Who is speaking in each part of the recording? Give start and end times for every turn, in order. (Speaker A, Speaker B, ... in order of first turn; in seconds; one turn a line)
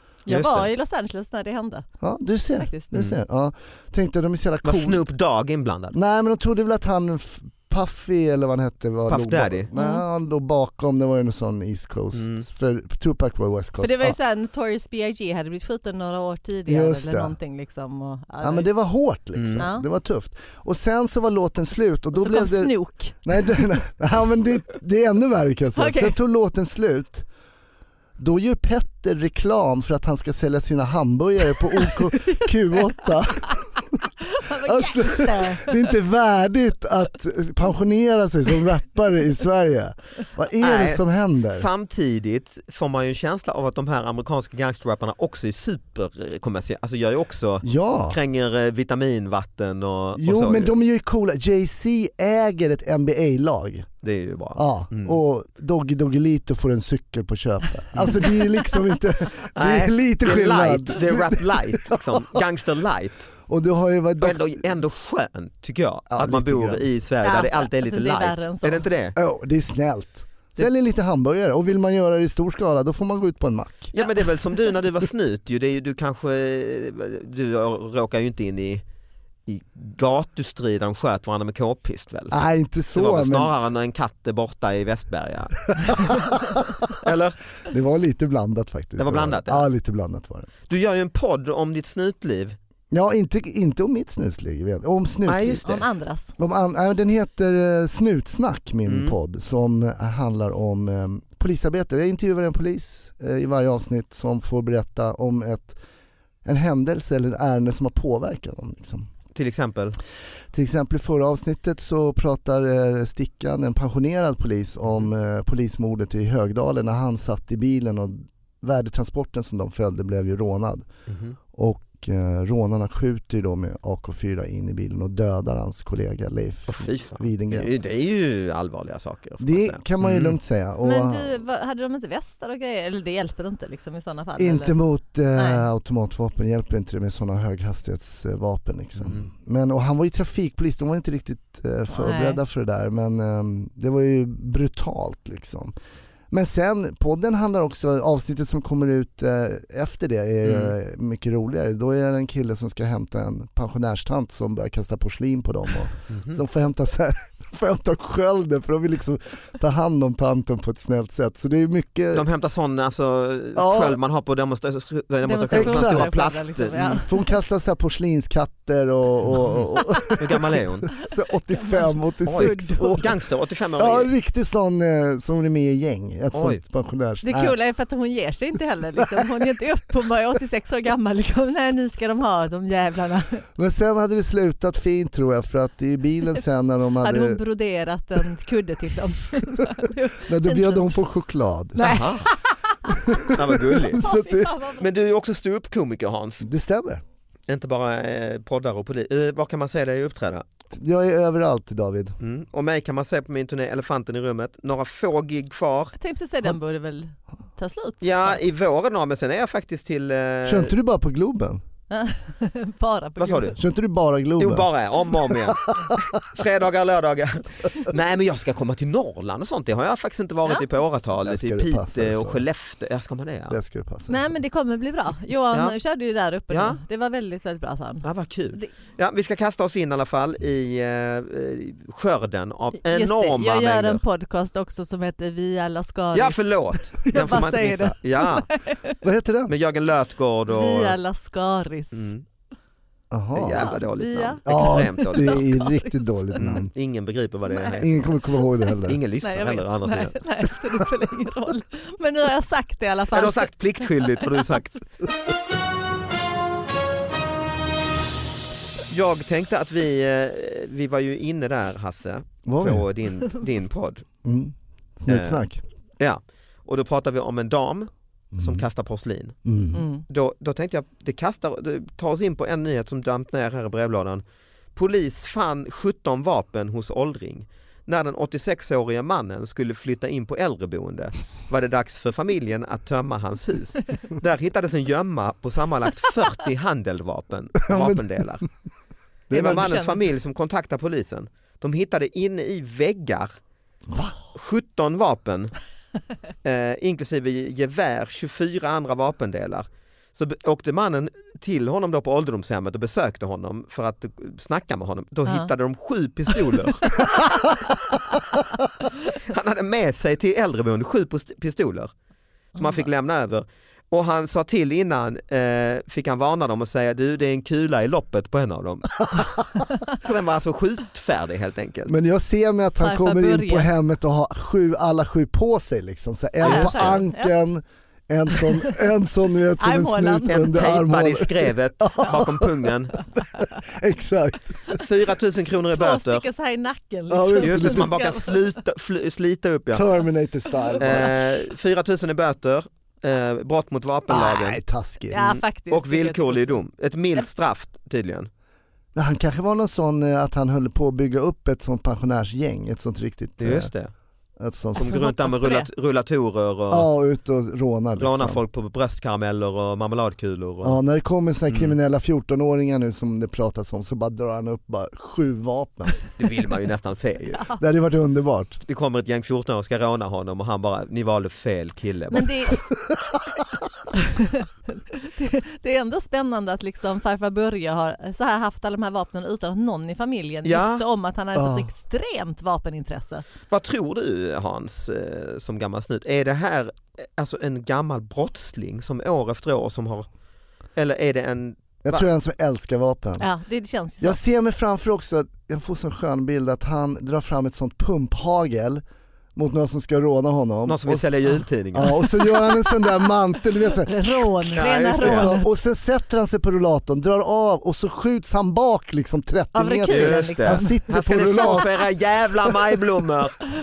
Speaker A: 0.3-1.9
Speaker B: 0.3-0.7
Speaker C: 2.0-5.0
Speaker A: 2.6-2.9
Speaker B: 4.6-6.0
Speaker C: 5.9-14.2
Speaker B: 9.1-9.7
Speaker A: 9.8-10.0
Speaker B: 12.1-12.4
Speaker A: 13.8-18.7
Speaker C: 16.7-17.4
Speaker C: 18.4-27.3
Speaker B: 19.4-19.6
Speaker A: 19.6-19.9
Speaker A: 22.2-23.2
Speaker A: 25.8-26.2
Speaker C: 28.2-41.7
Speaker A: 31.9-32.5
Speaker A: 34.2-35.9
Speaker B: 40.6-50.7
Speaker C: 47.6-48.2
Speaker C: 50.2-53.9
Speaker B: 54.0-55.2
Speaker C: 54.6-62.4
Speaker B: 57.9-58.2
Speaker B: 59.5-63.3
Speaker C: 63.5-64.5
Speaker B: 64.2-69.2
Speaker C: 66.1-66.8
Speaker A: 67.2-68.9
Speaker C: 69.2-73.9
Speaker B: 73.9-78.8
Speaker B: 79.5-82.4
Speaker C: 82.3-83.5
Speaker B: 83.0-86.4
Speaker B: 86.9-87.4
Speaker C: 87.7-90.5
Speaker B: 89.0-89.7
Speaker B: 90.7-92.6
Speaker C: 92.9-95.7
Speaker B: 95.2-95.8
Speaker A: 95.7-96.3
Speaker C: 96.4-105.8
Speaker B: 98.9-99.2
Speaker C: 106.4-109.1
Speaker B: 109.3-110.0
Speaker C: 110.5-120.9
Speaker B: 121.1-121.4
Speaker C: 121.5-127.7
Speaker B: 126.7-130.4
Speaker C: 129.4-131.4
Speaker A: 130.8-134.8
Speaker C: 134.4-145.8
Speaker A: 135.3-135.6
Speaker B: 139.0-139.3
Speaker A: 141.9-142.4
Speaker C: 146.3-162.3
Speaker B: 150.4-150.8
Speaker B: 156.1-156.4
Speaker B: 162.1-167.0
Speaker C: 163.6-164.0
Speaker A: 165.2-167.2
Speaker C: 165.5-166.3
Speaker C: 167.0-173.1
Speaker B: 170.2-170.9
Speaker A: 171.5-173.1
Speaker B: 172.2-174.1
Speaker C: 173.8-177.6
Speaker B: 176.3-176.6
Speaker A: 177.2-183.4
Speaker C: 183.6-187.4
Speaker A: 187.0-190.9
Speaker C: 190.2-191.9
Speaker A: 191.8-194.9
Speaker B: 191.8-192.3
Speaker C: 193.1-194.5
Speaker B: 193.3-194.1
Speaker B: 194.8-196.5
Speaker C: 196.4-197.0
Speaker B: 197.5-200.5
Speaker C: 200.7-202.2
Speaker B: 202.2-205.9
Speaker A: 206.0-208.4
Speaker B: 208.0-210.7
Speaker C: 210.5-211.6
Speaker A: 211.9-213.6
Speaker B: 213.2-213.6
Speaker C: 213.6-216.0
Speaker B: 214.4-223.6
Speaker C: 221.2-222.4
Speaker C: 223.5-224.3
Speaker A: 224.1-228.7
Speaker B: 226.5-226.8
Speaker B: 228.0-234.0
Speaker A: 232.8-239.0
Speaker B: 236.1-238.5
Speaker C: 239.0-239.6
Speaker B: 239.5-241.0
Speaker A: 240.5-242.0
Speaker B: 241.9-242.2
Speaker C: 243.1-243.8
Speaker B: 243.4-245.5
Speaker A: 243.5-246.4
Speaker C: 244.5-246.7
Speaker B: 246.4-248.0
Speaker A: 247.5-247.9
Speaker C: 247.8-249.0
Speaker B: 248.9-250.2
Speaker A: 249.2-255.1
Speaker B: 253.1-254.9
Speaker B: 258.9-264.1
Speaker C: 262.5-262.9
Speaker C: 264.2-265.6
Speaker B: 265.1-265.4
Speaker B: 266.0-269.4
Speaker C: 268.3-268.7
Speaker C: 269.4-269.8
Speaker A: 269.8-270.0
Speaker B: 270.1-274.2
Speaker B: 274.8-288.5
Speaker C: 287.7-288.1
Speaker C: 289.3-289.7
Speaker B: 289.3-293.3
Speaker A: 289.3-290.0
Speaker C: 293.9-294.2
Speaker B: 294.3-295.5
Speaker B: 296.4-307.7
Speaker A: 306.9-307.3
Speaker B: 309.1-311.9
Speaker B: 312.6-321.9
Speaker A: 312.6-312.8
Speaker C: 321.9-334.8
Speaker A: 322.8-323.7
Speaker B: 326.4-327.0
Speaker A: 326.4-327.3
Speaker A: 328.3-328.8
Speaker A: 329.6-330.6
Speaker B: 330.3-333.0
Speaker B: 334.7-336.3
Speaker A: 335.7-338.4
Speaker C: 337.1-337.9
Speaker B: 337.4-339.9
Speaker C: 339.7-341.3
Speaker A: 340.6-341.1
Speaker B: 340.8-344.6
Speaker C: 344.1-345.3
Speaker A: 345.1-346.6
Speaker B: 345.1-348.3
Speaker C: 348.9-353.7
Speaker B: 353.4-353.9
Speaker C: 354.4-354.9
Speaker B: 354.8-356.9
Speaker A: 354.8-355.7
Speaker C: 356.7-358.4
Speaker B: 358.0-360.8
Speaker C: 360.6-366.0
Speaker B: 361.5-361.8
Speaker B: 366.2-367.4
Speaker C: 367.6-368.6
Speaker B: 368.7-372.6
Speaker A: 372.1-372.6
Speaker C: 372.7-373.6
Speaker A: 373.9-383.3
Speaker B: 380.4-380.8
Speaker C: 381.4-381.7
Speaker B: 383.5-390.1
Speaker B: 390.8-392.1
Speaker C: 391.8-393.3
Speaker A: 393.2-394.2
Speaker C: 394.0-398.8
Speaker C: 399.4-411.7
Speaker B: 400.7-402.0
Speaker A: 402.0-403.0
Speaker A: 403.6-405.5
Speaker B: 404.5-405.4
Speaker A: 409.5-410.8
Speaker B: 409.9-413.4